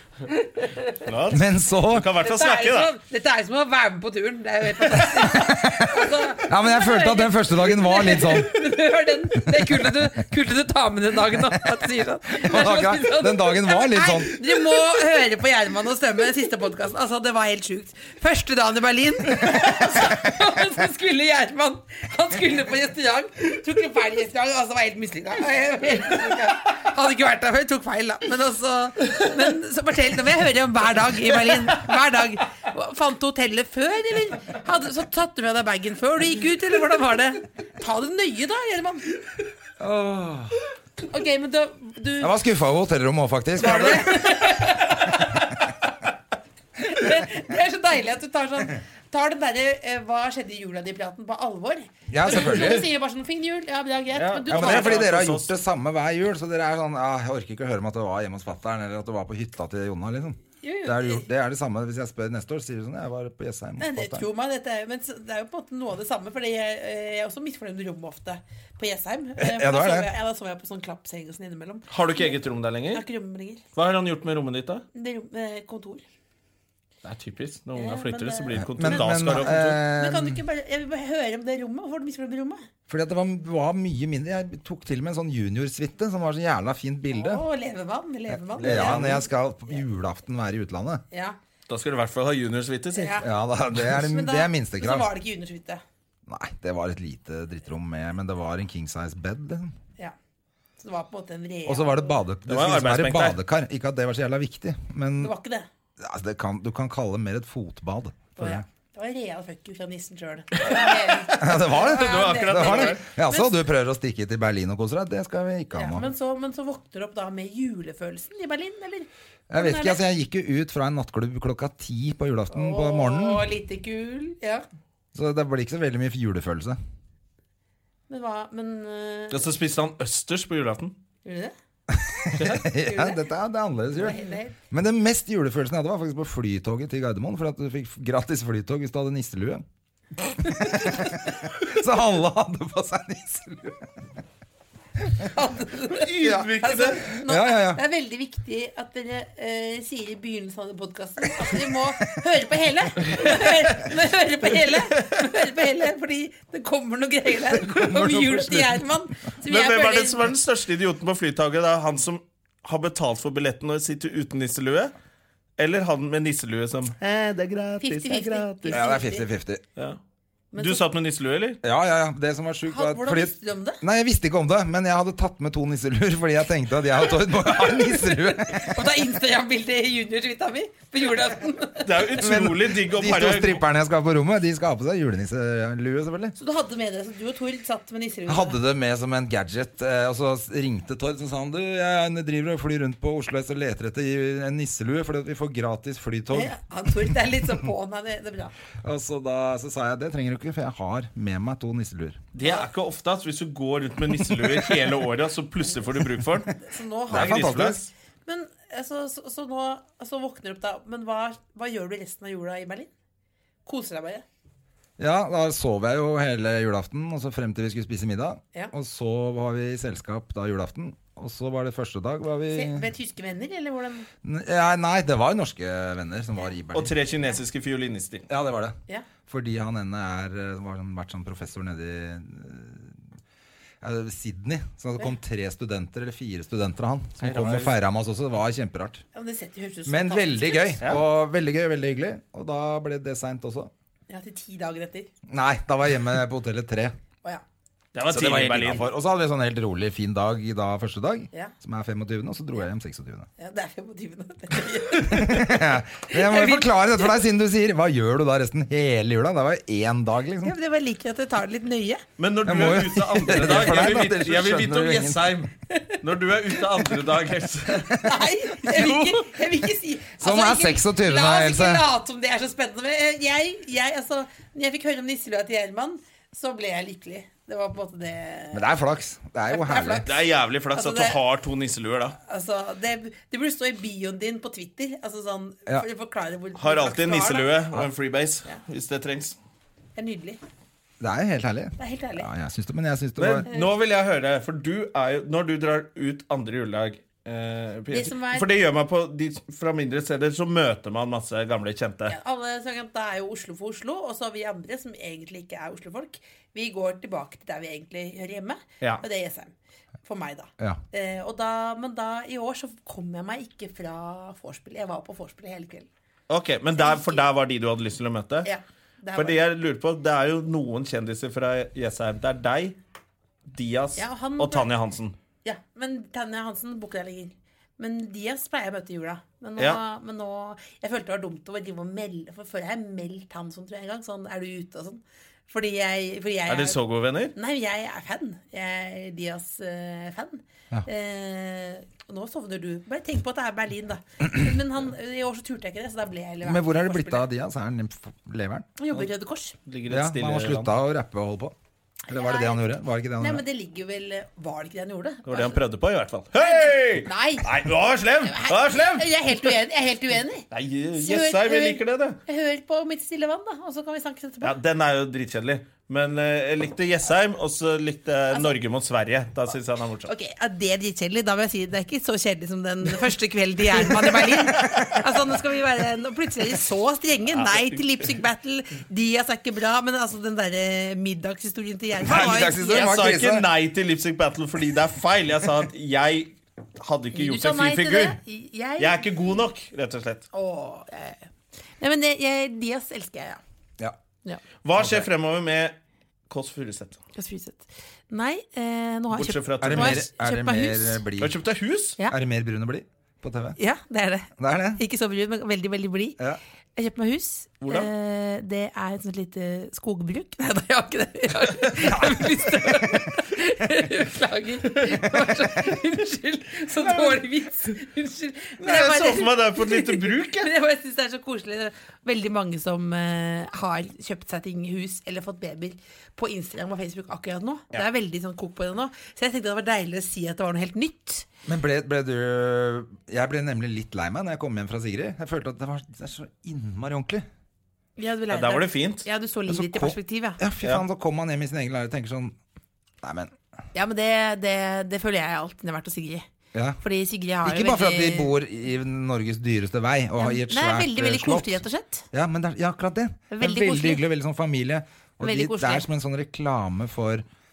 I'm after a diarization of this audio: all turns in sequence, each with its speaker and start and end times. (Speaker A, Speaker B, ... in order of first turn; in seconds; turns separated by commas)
Speaker A: 0.3-0.9, Speaker B: 1.0-2.9, Speaker C: 1.3-2.1, Speaker A: 2.2-39.1, Speaker C: 5.0-8.7, Speaker C: 9.4-10.1, Speaker C: 11.3-11.6, Speaker C: 12.3-14.6, Speaker C: 39.8-40.6, Speaker A: 41.1-42.4, Speaker C: 42.2-44.5, Speaker A: 43.6-45.9, Speaker A: 46.8-55.0, Speaker C: 52.1-52.9, Speaker B: 54.2-55.5, Speaker C: 54.2-64.2, Speaker A: 60.6-61.2, Speaker A: 63.8-72.4, Speaker C: 69.4-70.1, Speaker B: 71.9-73.0, Speaker A: 72.9-73.6, Speaker B: 73.7-74.8, Speaker A: 74.9-76.0, Speaker B: 77.0-79.8, Speaker A: 77.8-82.6, Speaker C: 78.5-80.4, Speaker C: 82.9-87.4, Speaker A: 87.1-89.3, Speaker C: 88.3-91.0, Speaker B: 88.6-89.2, Speaker A: 91.1-91.4, Speaker B: 91.7-93.2, Speaker A: 92.9-95.8, Speaker C: 93.2-95.1, Speaker C: 96.3-99.8, Speaker A: 100.8-102.2, Speaker C: 101.7-105.3, Speaker B: 102.5-103.4, Speaker A: 105.2-105.7, Speaker C: 106.0-108.6, Speaker A: 108.4-113.6, Speaker C: 111.3-116.1, Speaker B: 111.5-113.0, Speaker A: 115.7-120.0, Speaker C: 119.5-123.5, Speaker A: 122.5-124.7, Speaker C: 125.1-126.8, Speaker A: 128.1-129.4, Speaker B: 129.3-130.9, Speaker A: 131.2-131.5, Speaker C: 131.9-139.6, Speaker B: 132.3-132.7, Speaker A: 132.5-133.2, Speaker A: 134.0-134.6, Speaker C: 140.4-144.1, Speaker A: 140.5-141.1, Speaker C: 145.0-145.3, Speaker A: 145.2-160.3, Speaker B: 145.9-147.1, Speaker C: 146.2-146.5, Speaker C: 147.1-147.8, Speaker C: 157.4-158.8, Speaker B: 159.4-164.9, Speaker B: 165.6-168.9, Speaker A: 167.8-169.2, Speaker C: 168.7-169.6, Speaker A: 170.5-170.8, Speaker B: 170.6-171.6, Speaker C: 171.6-178.9, Speaker A: 172.7-173.8, Speaker A: 178.5-182.2, Speaker B: 181.8-183.6, Speaker C: 182.2-186.4, Speaker A: 186.4-188.6, Speaker C: 188.3-197.1, Speaker A: 196.3-198.5, Speaker C: 198.8-202.2, Speaker B: 202.3-206.5, Speaker A: 202.4-202.7, Speaker A: 206.6-207.6, Speaker C: 207.1-207.8, Speaker B: 207.1-207.9, Speaker A: 208.2-212.9, Speaker A: 213.7-214.2, Speaker C: 215.0-222.9, Speaker A: 222.5-224.1, Speaker C: 224.2-226.9, Speaker B: 226.7-228.3, Speaker C: 228.3-233.1, Speaker C: 233.8-239.0, Speaker B: 237.2-237.7, Speaker A: 239.1-240.8, Speaker C: 239.9-243.7, Speaker A: 244.1-245.1, Speaker C: 245.3-246.9, Speaker B: 247.9-248.9, Speaker C: 248.1-253.3, Speaker A: 253.4-257.2, Speaker C: 255.0-260.6, Speaker A: 260.4-262.1, Speaker B: 262.2-269.2, Speaker C: 262.4-265.4, Speaker A: 268.0-278.7, Speaker C: 270.2-271.9, Speaker C: 278.5-280.1, Speaker A: 279.5-281.2, Speaker B: 280.0-282.2, Speaker A: 282.2-287.6, Speaker B: 286.6-289.4, Speaker A: 289.9-290.4, Speaker C: 291.0-293.4, Speaker A: 291.8-292.3, Speaker B: 293.2-302.1, Speaker A: 297.9-298.5, Speaker A: 302.1-309.5, Speaker A: 310.1-315.9, Speaker B: 316.3-318.5, Speaker A: 316.7-317.3, Speaker A: 318.4-319.4, Speaker B: 319.1-322.8, Speaker B: 323.4-325.1, Speaker A: 324.0-324.7, Speaker A: 325.4-336.8, Speaker B: 336.5-337.3, Speaker A: 337.3-347.2, Speaker C: 346.4-349.0, Speaker A: 348.8-349.6, Speaker B: 349.6-350.7, Speaker C: 349.9-351.6, Speaker A: 352.1-352.6, Speaker C: 352.1-353.4, Speaker A: 353.2-355.6, Speaker B: 355.2-359.4, Speaker A: 356.4-357.5, Speaker A: 358.2-364.6, Speaker B: 360.5-362.2, Speaker B: 364.4-370.1, Speaker A: 370.1-382.9, Speaker B: 374.0-375.0, Speaker B: 377.3-378.2, Speaker C: 382.0-383.5, Speaker B: 382.4-388.2, Speaker A: 387.1-389.1, Speaker B: 388.8-390.2, Speaker A: 390.3-391.2, Speaker A: 391.8-393.4, Speaker B: 394.6-395.8, Speaker C: 394.8-395.1, Speaker B: 396.3-397.0, Speaker A: 397.1-401.0, Speaker B: 399.1-400.0, Speaker C: 399.6-401.4, Speaker B: 401.2-402.0, Speaker C: 402.1-403.6, Speaker A: 403.6-406.2, Speaker C: 404.4-404.8, Speaker A: 406.8-431.3, Speaker B: 407.6-407.9, Speaker C: 411.8-412.7, Speaker B: 416.8-417.2, Speaker B: 418.6-420.5, Speaker C: 431.5-437.2, Speaker A: 438.0-440.4, Speaker B: 438.3-439.1, Speaker C: 439.5-442.4, Speaker C: 443.0-443.3, Speaker A: 443.7-446.2, Speaker C: 446.5-446.8, Speaker A: 446.8-448.3, Speaker C: 447.4-451.6, Speaker A: 450.2-452.1, Speaker C: 452.1-457.2, Speaker A: 453.3-454.1, Speaker A: 455.2-455.8